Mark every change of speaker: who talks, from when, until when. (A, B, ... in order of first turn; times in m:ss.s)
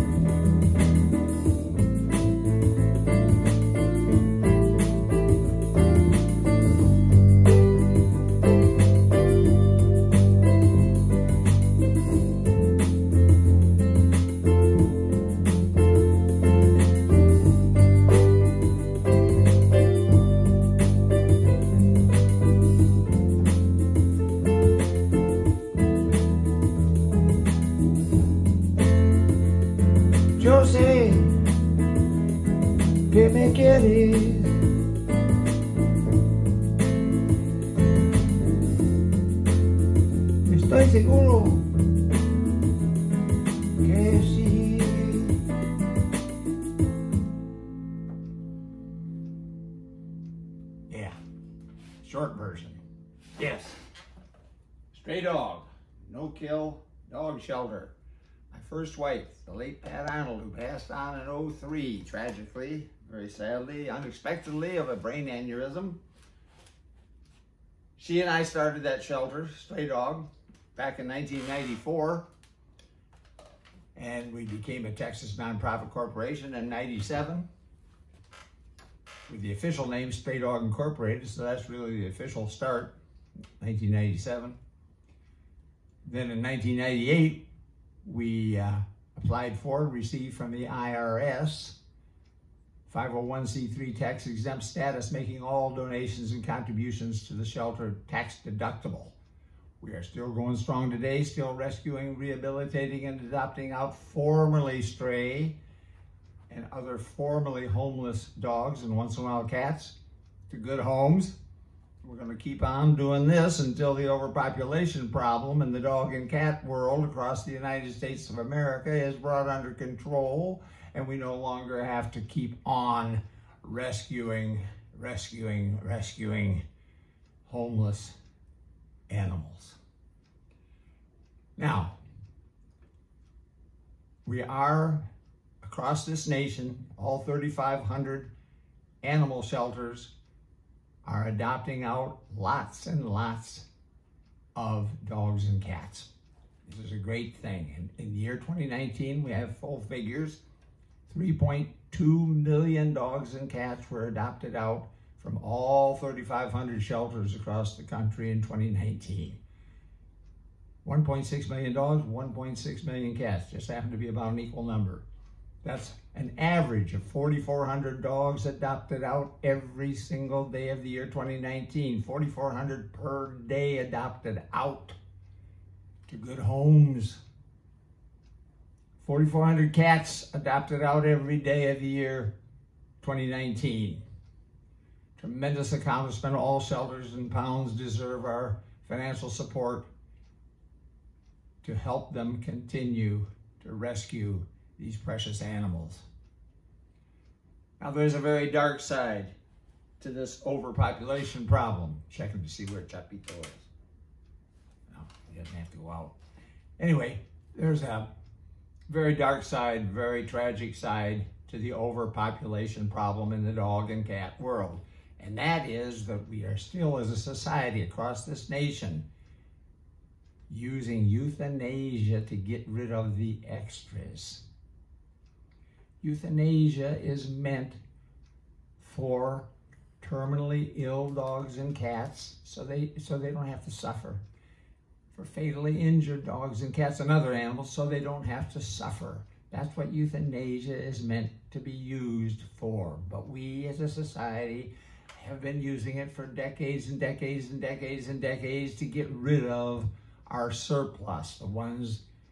0:30.4-0:31.5 A
0:33.1-0:34.6 A
0:40.4-0:41.7 A
0:43.8-0:45.4 A
0:50.9-0:51.2 A
0:52.0-0:52.8 A
0:53.4-0:53.8 A
0:54.9-0:57.9 A
0:58.5-1:06.0 A
1:08.0-1:12.3 A
1:13.9-1:17.5 A
1:19.3-1:22.9 A
1:23.6-1:24.6 A
1:26.0-1:27.4 A
1:28.0-1:31.8 A
1:32.8-1:39.1 A
1:39.8-1:45.6 A
1:46.5-1:50.0 A
1:50.5-1:51.3 A
1:52.0-2:06.6 A
2:07.4-2:08.1 A
2:09.1-2:09.8 A
2:11.6-2:11.9 A
2:14.2-2:15.0 A
2:15.6-2:18.3 A
2:19.0-2:20.1 A
2:21.0-2:23.6 A
2:24.5-2:26.1 A
2:26.6-2:30.4 A
2:31.1-2:39.4 A
2:40.8-2:45.0 A
2:45.6-2:55.0 A
2:56.1-2:57.2 A
2:59.0-3:02.3 A
3:03.0-3:04.0 A
3:05.2-3:09.9 A
3:11.6-3:16.0 A
3:17.8-3:19.3 A
3:20.0-3:23.7 A
3:24.9-3:26.1 A
3:26.8-3:28.1 A
3:28.9-3:39.0 A
3:40.5-3:44.4 A
3:46.0-3:47.8 A
3:48.8-3:49.5 A
3:50.0-3:54.2 A
3:55.1-4:12.0 A